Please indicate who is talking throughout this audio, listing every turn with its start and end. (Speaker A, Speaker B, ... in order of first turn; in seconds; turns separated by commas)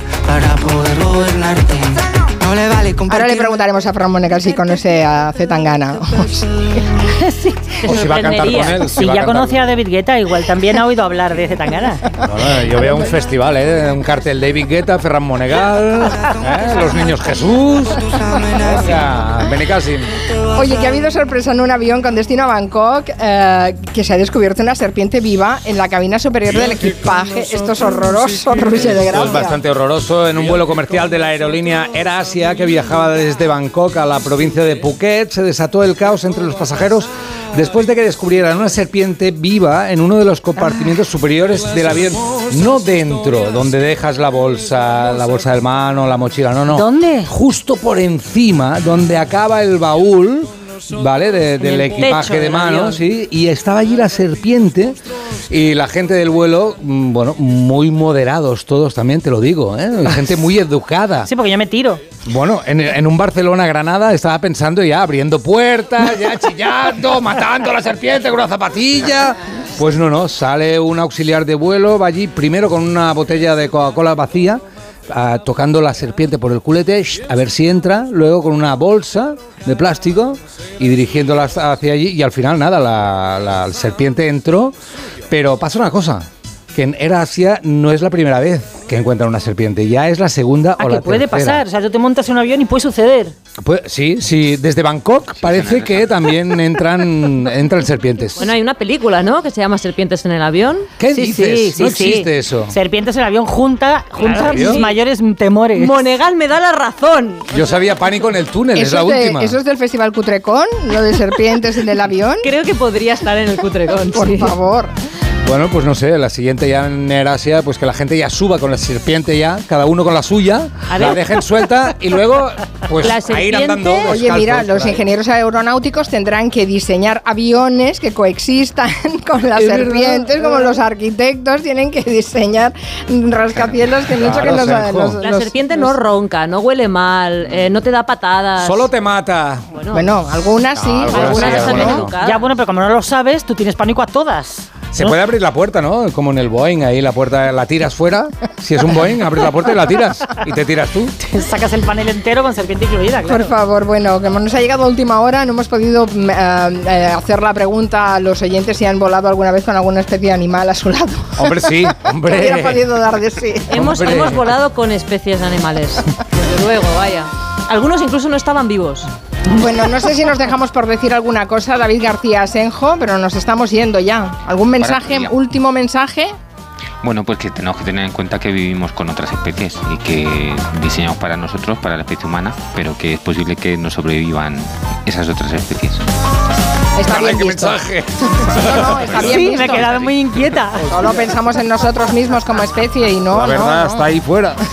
Speaker A: 0.2-3.6, Speaker B: 3.1-6.5, Speaker C: 7.2-12.0, Speaker D: 7.8-8.9, Speaker E: 7.9-9.6, Speaker E: 12.2-18.1, Speaker A: 18.0-19.3, Speaker E: 18.7-20.1, Speaker B: 20.5-29.6, Speaker A: 26.6-28.5, Speaker E: 28.9-55.0, Speaker C: 46.7-47.3, Speaker D: 51.6-53.0, Speaker E: 55.5-61.3, Speaker C: 61.3-62.0, Speaker E: 62.3-84.8, Speaker E: 85.3-91.6, Speaker C: 90.8-93.3, Speaker E: 93.6-98.5, Speaker F: 95.4-96.1, Speaker D: 98.4-100.9, Speaker E: 101.0-102.7, Speaker C: 101.1-106.0, Speaker D: 104.2-104.9, Speaker E: 104.3-104.8, Speaker D: 105.8-107.5, Speaker E: 107.5-109.6, Speaker B: 108.8-112.5, Speaker D: 112.4-114.5, Speaker B: 114.1-114.9, Speaker E: 115.5-125.0, Speaker D: 120.9-121.5, Speaker D: 123.0-124.2, Speaker B: 124.1-135.9, Speaker D: 129.6-130.6, Speaker E: 134.1-135.2, Speaker D: 135.2-138.9, Speaker E: 138.6-139.7, Speaker D: 139.7-140.1, Speaker B: 139.9-142.1, Speaker E: 140.8-142.1, Speaker D: 141.1-142.4, Speaker C: 142.2-144.9, Speaker E: 144.9-151.1, Speaker C: 151.2-153.5, Speaker B: 153.3-161.7, Speaker E: 161.4-162.8, Speaker B: 162.2-163.9, Speaker D: 163.7-169.1, Speaker E: 163.7-164.4, Speaker B: 169.5-176.3, Speaker F: 174.8-175.3, Speaker F: 177.0-186.0, Speaker B: 187.0-189.9, Speaker E: 187.1-188.9, Speaker F: 189.1-190.2, Speaker C: 189.2-190.9, Speaker B: 190.9-194.1, Speaker E: 190.9-191.2, Speaker E: 193.3-194.6